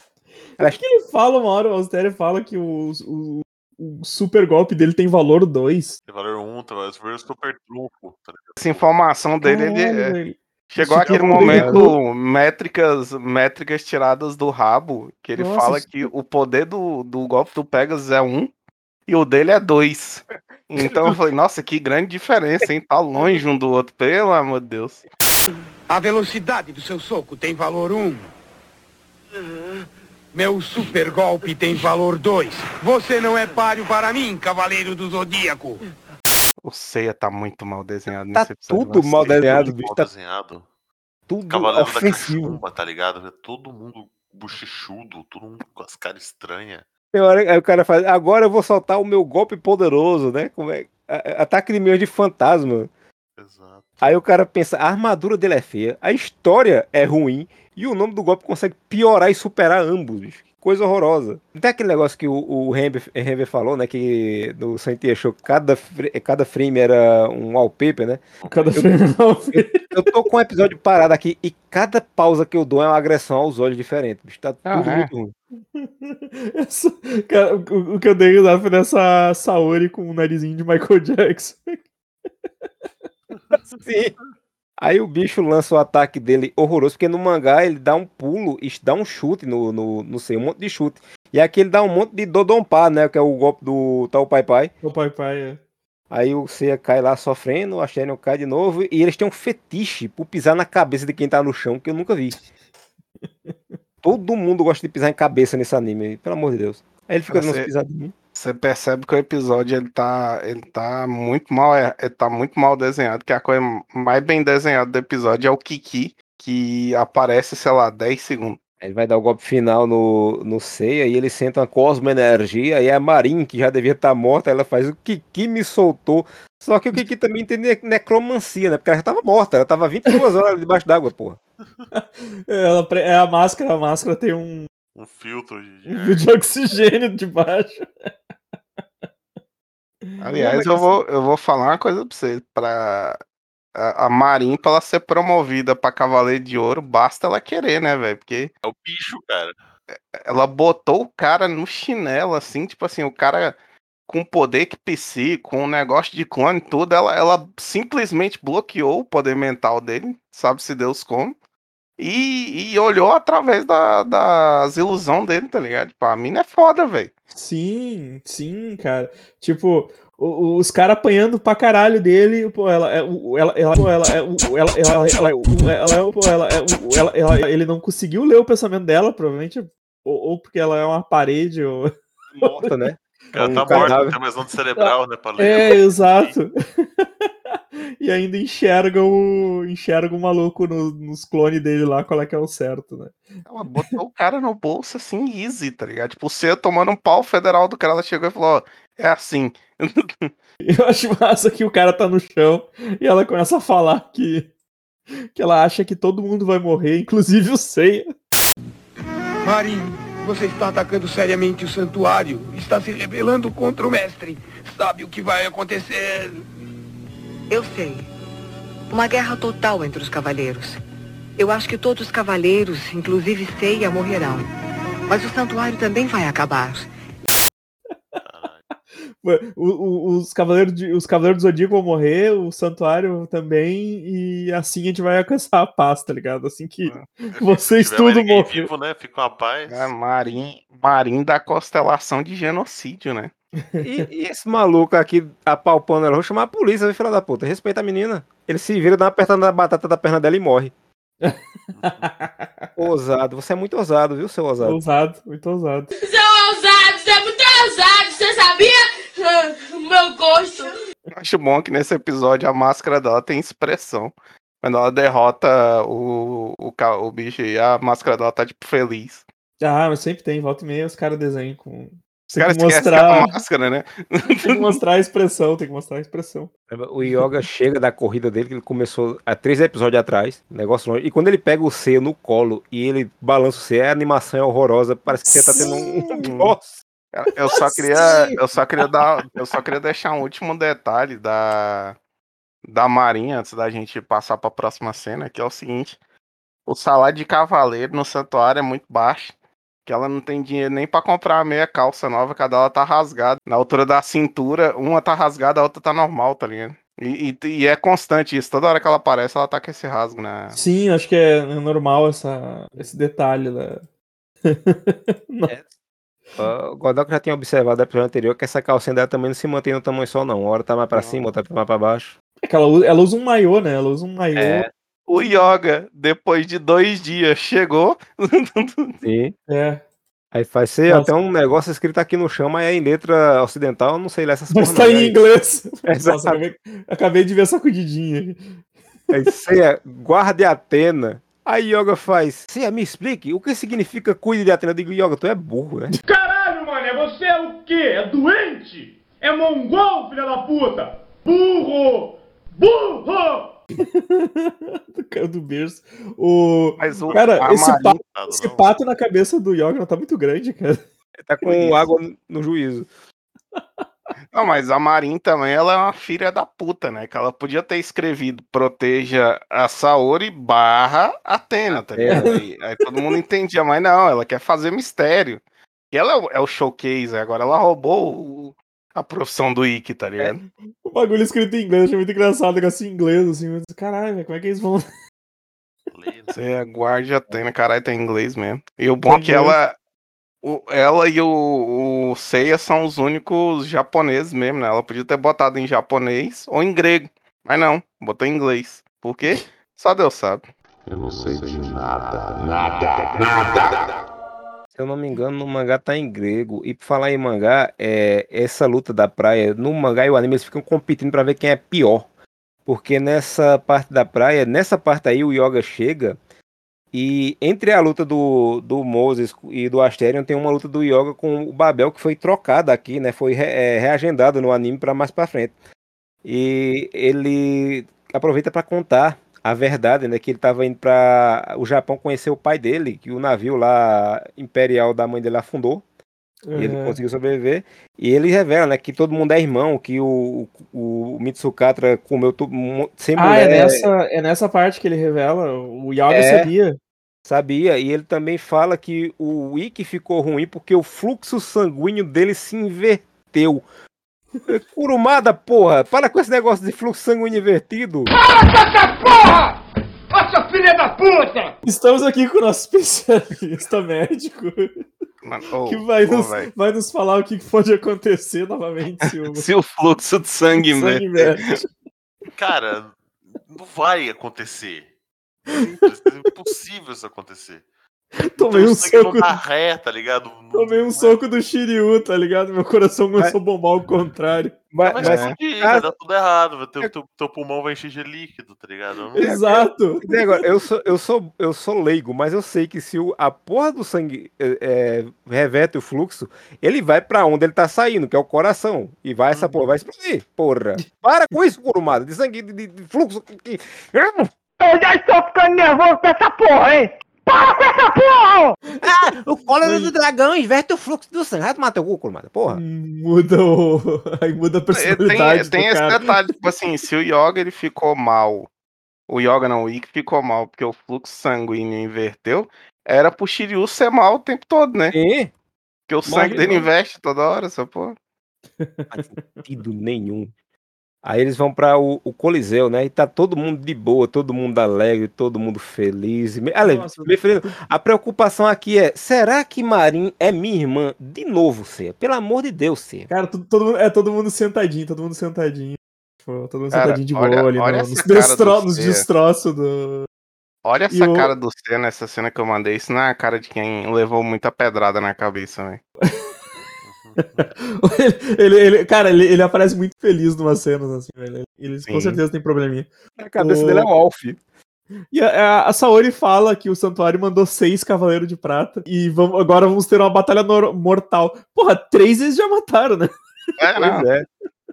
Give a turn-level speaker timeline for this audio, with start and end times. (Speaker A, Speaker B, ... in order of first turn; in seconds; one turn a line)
Speaker A: 0.6-6.0
Speaker B: 6.1-8.8
Speaker C: 8.6-10.1
Speaker A: 9.4-11.9
Speaker C: 10.7-18.5
Speaker D: 11.0-11.9
Speaker A: 15.3-15.9
Speaker C: 19.1-25.0
Speaker D: 20.8-21.1
Speaker E: 25.9-28.3
Speaker E: 30.3-35.8
Speaker C: 36.6-39.3
Speaker D: 38.3-40.1
Speaker B: 39.2-40.7
Speaker D: 41.3-42.6
Speaker B: 41.5-46.8
Speaker D: 47.1-52.9
Speaker B: 53.4-54.2
Speaker D: 54.0-68.2
Speaker B: 68.4-68.7
Speaker A: 68.5-69.8
Speaker D: 69.5-75.3
Speaker C: 74.7-75.1
Speaker A: 75.7-81.8
Speaker D: 83.8-84.1
Speaker D: 84.8-94.7
Speaker A: 94.8-95.6
Speaker D: 96.1-102.4
Speaker A: 103.5-103.7
Speaker D: 104.0-108.1
Speaker C: 107.3-107.7
Speaker C: 108.3-118.6
Speaker D: 118.8-131.4
Speaker A: 131.9-134.7
Speaker B: 134.9-136.3
Speaker A: 135.9-138.1
Speaker A: 140.0-140.9
Speaker C: 140.2-143.2
Speaker C: 143.8-148.5
Speaker B: 148.6-149.6
Speaker C: 150.1-153.6
Speaker C: 154.1-161.3
Speaker C: 162.0-167.1
Speaker A: 167.3-182.6
Speaker D: 182.4-184.2
Speaker B: 183.3-186.3
Speaker A: 183.4-183.9
Speaker A: 184.8-187.3
Speaker A: 188.0-193.2
Speaker C: 193.5-200.3
Speaker A: 200.6-204.5
Speaker A: 205.3-208.1
Speaker E: 209.4-216.4
Speaker F: 217.5-218.1
Speaker F: 218.9-220.8
Speaker F: 221.4-224.5
Speaker F: 225.1-226.9
Speaker B: 228.2-228.6
Speaker A: 229.2-238.7
Speaker B: 237.3-239.9
Speaker C: 239.7-243.3
Speaker A: 243.7-244.0
Speaker D: 243.8-250.7
Speaker A: 251.2-252.7
Speaker B: 251.8-252.1
Speaker D: 252.8-254.8
Speaker A: 254.6-255.9
Speaker G: 255.9-260.8
Speaker C: 261.1-269.2
Speaker A: 269.6-273.3
Speaker C: 272.4-274.7
Speaker A: 274.4-276.5
Speaker D: 276.7-286.7
Speaker A: 285.3-286.3
Speaker C: 286.2-286.5
Speaker C: 287.1-291.9
Speaker A: 287.4-288.4
Speaker C: 292.7-296.0
Speaker C: 296.6-299.3
Speaker C: 299.9-310.5
Speaker A: 310.5-313.8
Speaker A: 314.4-315.5
Speaker D: 316.4-322.1
Speaker C: 320.9-321.2
Speaker A: 322.4-325.4
Speaker D: 324.3-324.7
Speaker C: 325.1-329.0
Speaker D: 329.0-329.3
Speaker A: 329.5-329.8
Speaker D: 330.3-335.2
Speaker A: 334.5-338.6
Speaker D: 335.9-336.5
Speaker D: 339.1-345.9
Speaker H: 346.0-353.6
Speaker A: 353.8-360.8
Speaker C: 356.8-358.0
Speaker B: 358.1-358.7
Speaker D: 361.2-362.9
Speaker C: 364.3-380.4
Speaker D: 371.9-372.3
Speaker A: 372.1-372.3
Speaker A: 380.9-384.8
Speaker B: 385.9-386.4
Speaker C: 386.4-389.7
Speaker A: 389.1-389.6
Speaker C: 390.4-400.4
Speaker I: 400.9-403.9
Speaker D: 404.7-412.1
Speaker D: 412.6-416.2
Speaker D: 416.9-425.5
Speaker D: 426.2-435.8
Speaker A: 436.5-437.0
Speaker D: 436.5-443.9
Speaker A: 443.1-446.8
Speaker D: 446.1-446.5
Speaker D: 447.2-453.6
Speaker D: 454.5-458.1
Speaker H: 458.1-461.6
Speaker A: 461.6-464.7
Speaker C: 465.2-466.5
Speaker A: 465.6-469.5
Speaker C: 469.3-471.4
Speaker A: 470.6-471.7
Speaker B: 472.3-474.9
Speaker B: 475.5-477.6
Speaker A: 478.2-479.3
Speaker B: 478.4-481.3
Speaker A: 480.5-484.6
Speaker D: 484.7-485.9
Speaker B: 484.8-489.3
Speaker C: 485.0-485.3
Speaker D: 489.1-504.3
Speaker A: 489.2-490.4
Speaker J: 504.6-508.5
Speaker A: 508.7-509.1
Speaker D: 508.8-512.6
Speaker A: 509.6-509.9
Speaker A: 512.5-516.0
Speaker C: 514.7-518.5
Speaker C: 519.1-525.0
Speaker D: 524.9-525.3
Speaker C: 525.9-528.0
Speaker D: 526.0-526.7
Speaker A: 528.6-529.4
Speaker D: 528.9-530.3
Speaker D: 531.0-543.1
Speaker A: 536.6-537.5
Speaker A: 543.1-550.1
Speaker C: 546.7-549.0
Speaker C: 550.6-555.8
Speaker A: 550.9-551.3
Speaker B: 556.8-557.5
Speaker A: 557.4-563.9
Speaker C: 561.9-562.2
Speaker D: 563.2-564.4
Speaker A: 565.1-573.1
Speaker C: 573.6-574.0
Speaker D: 573.7-574.2